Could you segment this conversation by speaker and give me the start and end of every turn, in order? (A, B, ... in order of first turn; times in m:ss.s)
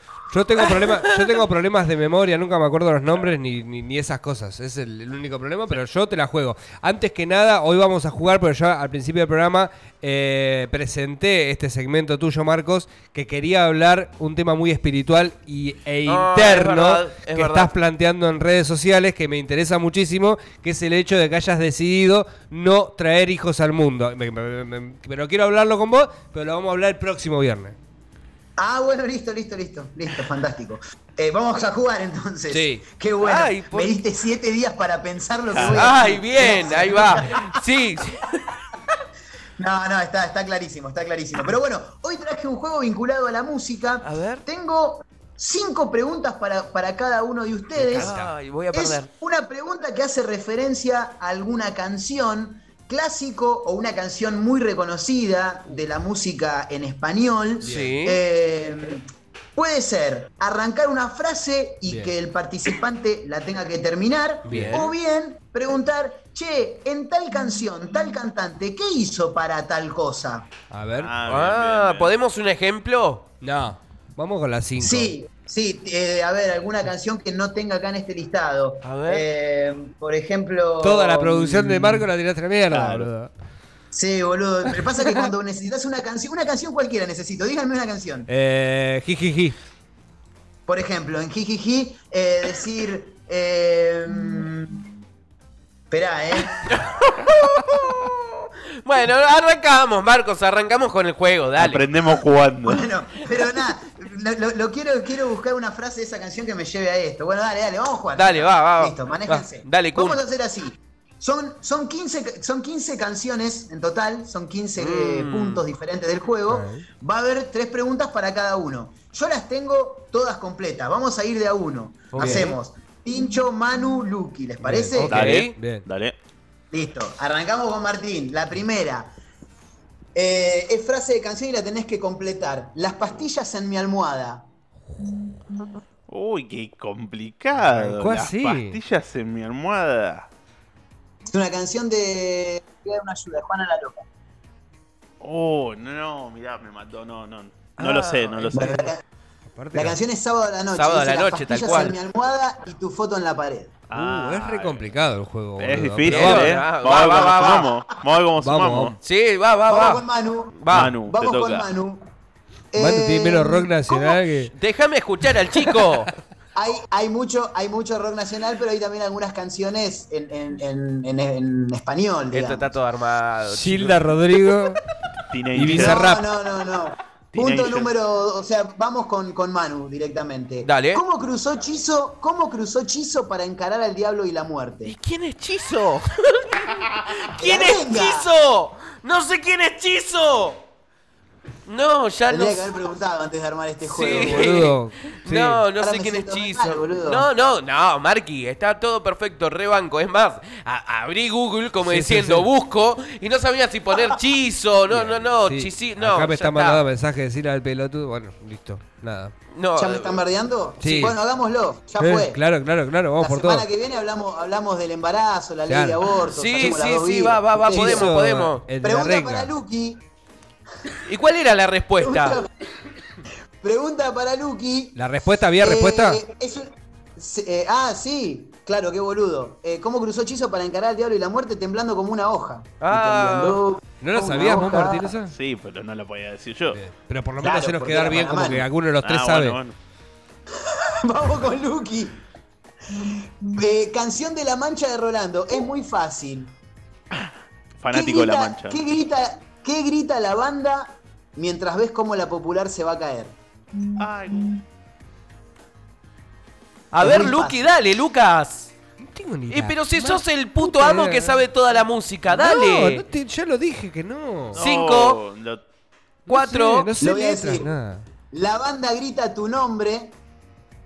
0:00.3-0:27.8 A
0:00.6-0:01.3 B
0:16.1-0:17.7 B
0:28.6-0:37.5 C
0:32.5-0:34.0 B
0:35.5-0:35.9 D
0:35.6-0:38.5 B
0:39.6-0:48.2 C
0:44.0-0:44.4 B
0:47.8-0:48.3 A
0:47.9-0:49.1 B
0:48.7-0:59.0 C
0:57.6-0:58.2 B
0:59.6-1:10.5 C
1:01.9-1:02.1 A
1:04.5-1:04.9 B
1:10.7-1:11.1 A
1:10.9-1:12.2 D
1:11.3-1:13.4 B
1:13.4-1:15.1 A
1:14.8-1:22.1 C
1:18.8-1:19.3 B
1:20.8-1:23.3 A
1:22.7-1:23.1 D
1:23.9-1:28.3 C
1:28.3-1:29.6 A
1:30.7-1:34.9 C
1:35.9-1:36.8 C
1:36.7-1:38.3 B
1:37.4-1:37.9 D
1:38.8-1:41.8 B
1:41.6-1:42.9 D
1:42.6-2:05.2 C
1:48.2-1:50.2 B
1:54.8-1:55.6 B
1:56.5-1:56.8 A
2:02.1-2:02.6 B
2:04.6-2:05.8 A
2:05.0-2:06.2 D
2:05.1-2:05.6 B
2:06.7-2:09.1 C
2:10.2-2:14.5 C
2:16.1-2:20.3 D
2:17.6-2:18.8 A
2:21.3-2:24.0 C
2:25.2-2:28.9 D
2:27.8-2:28.9 B
2:28.5-2:29.0 C
2:29.5-2:30.0 A
2:29.7-2:33.8 C
2:30.7-2:32.0 B
2:33.9-2:34.9 D
2:33.9-2:36.6 A
2:35.6-2:39.0 D
2:36.0-2:37.7 B
2:36.8-2:37.8 C
2:38.4-2:39.0 A
2:39.0-2:40.0 B
2:39.7-2:42.1 C
2:40.6-2:41.0 B
2:40.7-2:41.7 D
2:42.7-2:44.2 C
2:42.8-2:44.5 A
2:44.5-2:46.1 B
2:46.6-2:52.7 C
2:52.3-2:54.2 B
2:53.5-2:54.8 A
2:55.3-2:56.1 D
2:55.5-2:56.2 A
2:55.6-3:05.0 C
2:57.3-2:57.9 D
3:00.6-3:01.0 B
3:04.8-3:10.6 B
3:07.4-3:08.3 C
3:11.7-3:12.7 B
3:12.3-3:14.6 C
3:13.8-3:26.8 B
3:14.1-3:15.6 A
3:15.8-3:17.3 C
3:21.9-3:22.5 A
3:24.9-3:29.3 A
3:29.5-3:30.2 B
3:29.8-3:32.4 C
3:30.8-3:31.2 A
3:32.0-3:33.7 A
3:33.2-3:38.1 C
3:35.7-3:36.0 A
3:36.3-3:38.6 B
3:37.7-3:39.5 A
3:38.8-3:40.0 C
3:41.1-3:42.4 B
3:42.0-3:42.5 C
3:43.6-3:45.0 C
3:45.0-3:46.2 A
3:45.6-3:55.2 C
3:52.8-3:53.6 B
3:54.0-3:55.3 A
3:55.2-3:56.8 D
3:56.7-3:59.6 A
3:57.4-3:58.7 C
3:59.0-3:59.8 D
4:00.7-4:02.2 C
4:02.9-4:06.5 C
4:07.8-4:08.8 D
4:07.9-4:13.4 C
4:14.0-4:14.6 D
4:16.9-4:18.7 B
4:17.0-4:17.7 C
4:19.0-4:21.5 A
4:19.5-4:23.0 B
4:22.3-4:24.6 A
4:24.5-4:25.6 D
4:24.5-4:25.2 B
4:26.3-4:26.9 B
4:26.3-4:28.1 A
4:27.0-4:27.7 C
4:28.3-4:30.1 C